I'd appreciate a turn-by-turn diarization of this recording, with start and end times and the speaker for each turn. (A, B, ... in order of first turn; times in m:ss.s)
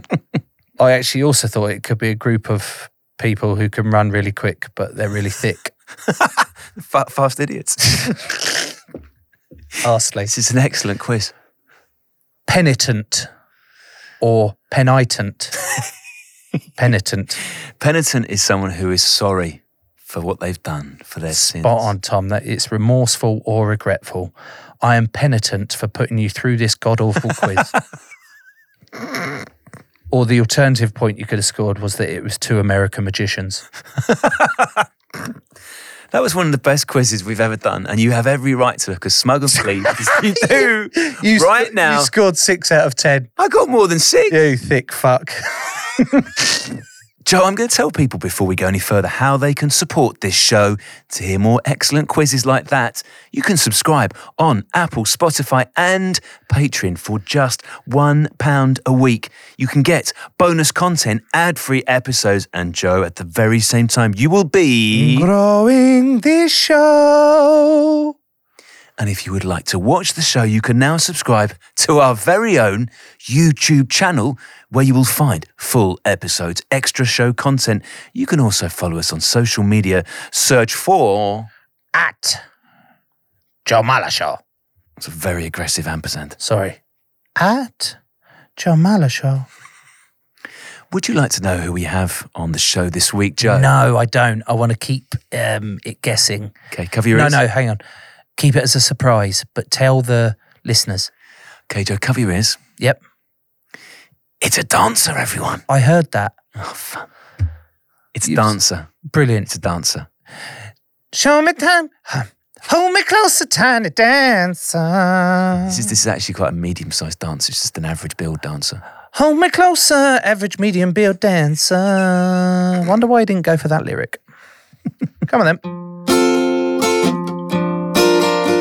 0:00.8-0:05.7 A
0:06.2-0:08.2 B
0:09.8-0:10.3 A
0:10.3-0:11.3 B
0:12.5-0:13.3 A
0:14.2-0:15.6 A
0:16.8-0:17.4 A
0:17.8-0:21.9 B
0:21.3-0:27.7 A
0:30.1-0:33.6 A
0:34.2-0:34.6 B
0:36.1-0:42.1 B
0:41.0-0:43.3 A
0:43.4-0:44.4 B
0:44.3-0:46.2 A
0:47.2-1:05.3 B
1:04.9-1:08.1 A
1:09.0-1:21.5 B
1:21.9-1:22.4 A
1:23.6-1:24.4 A
1:25.0-1:26.4 B
1:26.4-1:26.8 A
1:27.4-1:28.0 A
1:28.6-1:29.4 A
1:30.9-1:33.7 B
1:33.4-1:36.5 A
1:36.7-1:37.4 B
1:37.1-1:37.8 A
1:38.4-1:41.1 A
1:41.7-1:42.6 B
1:44.4-1:45.6 B
1:45.7-1:46.3 A
1:46.6-1:47.1 B
1:48.1-1:48.9 B
1:48.2-1:48.5 A
1:49.0-1:49.5 A
1:49.5-1:50.1 B
1:51.1-1:55.8 A
1:55.7-1:58.8 B
1:59.1-2:04.2 A
2:05.3-2:05.6 A